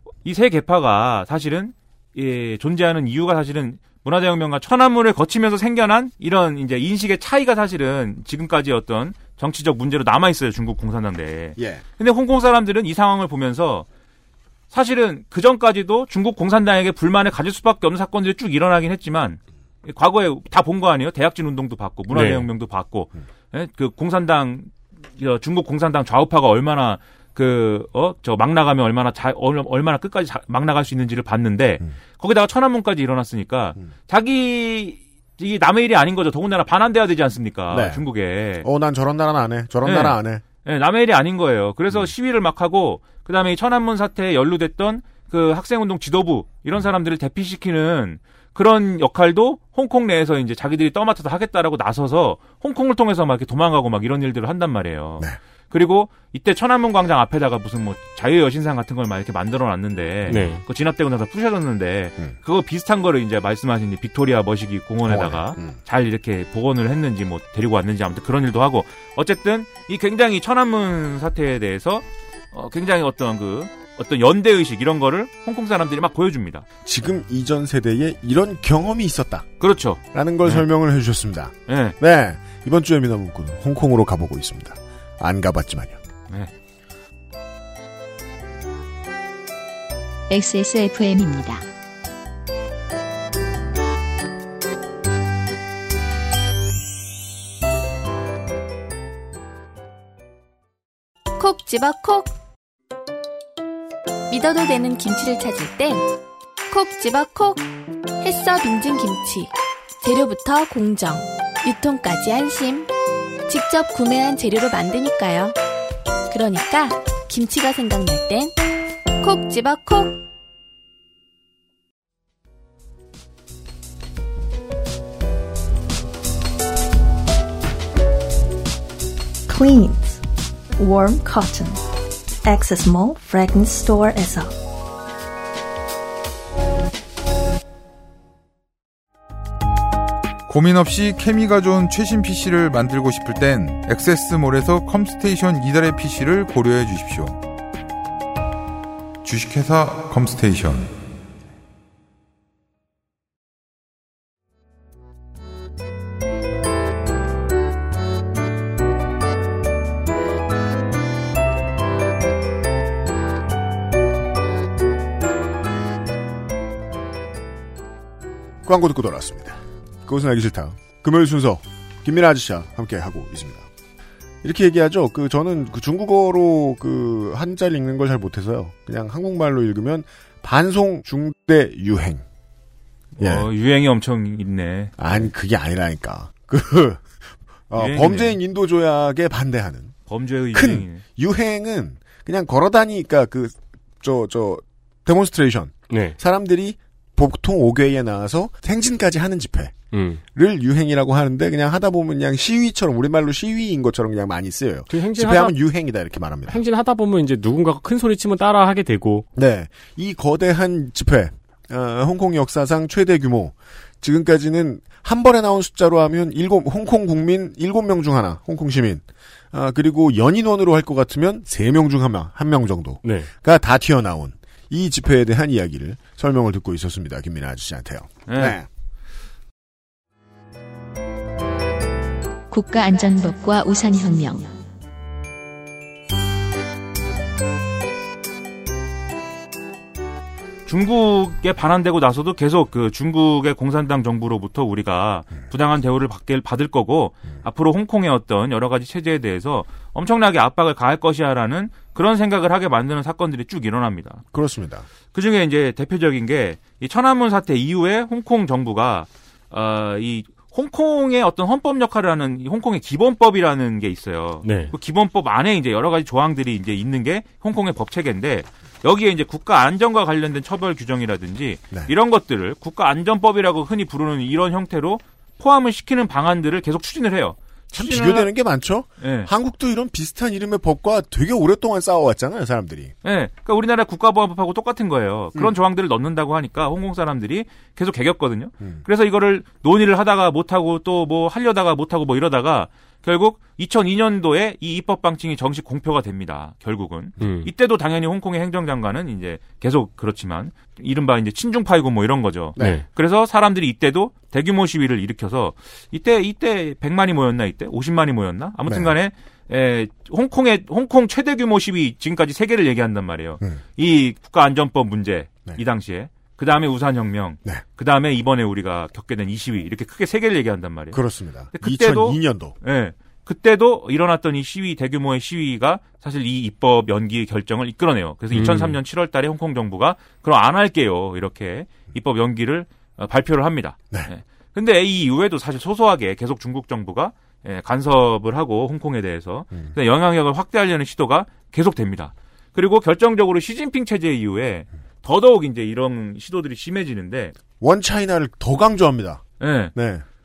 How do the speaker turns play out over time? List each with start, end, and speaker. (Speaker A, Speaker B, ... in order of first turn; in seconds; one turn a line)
Speaker A: 0.2-13.8
Speaker B: 11.6-11.8
Speaker A: 14.7-38.6
Speaker C: 22.1-22.5
Speaker B: 37.7-38.0
Speaker B: 38.6-40.4
Speaker A: 39.8-76.6
Speaker C: 60.2-60.6
Speaker B: 65.0-65.8
Speaker B: 76.8-79.5
Speaker A: 79.6-80.6
Speaker B: 80.1-86.0
Speaker A: 81.7-82.0
Speaker D: 90.3-91.6
Speaker E: 101.4-102.3
Speaker E: 104.3-106.1
Speaker E: 106.7-107.7
Speaker E: 108.2-112.9
Speaker E: 113.5-115.5
Speaker E: 116.3-118.5
Speaker E: 119.2-120.2
Speaker F: 129.5-130.2
Speaker F: 130.8-131.8
Speaker F: 132.4-134.5
Speaker G: 140.5-147.4
Speaker G: 149.2-150.9
Speaker B: 168.6-173.7
Speaker B: 174.4-182.2
Speaker A: 183.2-185.3
Speaker B: 183.2-183.5
Speaker B: 185.0-189.9
Speaker A: 187.7-188.4
Speaker A: 190.1-191.0
Speaker B: 190.5-199.8
Speaker C: 195.9-196.2
Speaker C: 199.9-200.2
Speaker B: 200.3-206.6
Speaker C: 204.9-205.5
Speaker C: 206.5-209.2
Speaker B: 209.3-228.7
Speaker C: 223.0-223.3
Speaker A: 228.3-228.6
Speaker D: 232.5-234.5
Speaker A: 240.7-254.2
Speaker B: 254.3-254.8
Speaker A: 255.1-278.3
Speaker C: 264.4-264.7
Speaker B: 277.7-282.9
Speaker A: 279.0-279.3
Speaker A: 283.0-321.0
Speaker C: 297.2-297.5
Speaker B: 302.6-302.8
Speaker C: 302.6-302.8
Speaker B: 308.7-308.9
Speaker B: 320.9-322.5
Speaker A: 321.5-347.3
Speaker C: 328.3-328.8
Speaker B: 347.6-349.2
Speaker A: 349.4-349.7
Speaker B: 349.7-350.0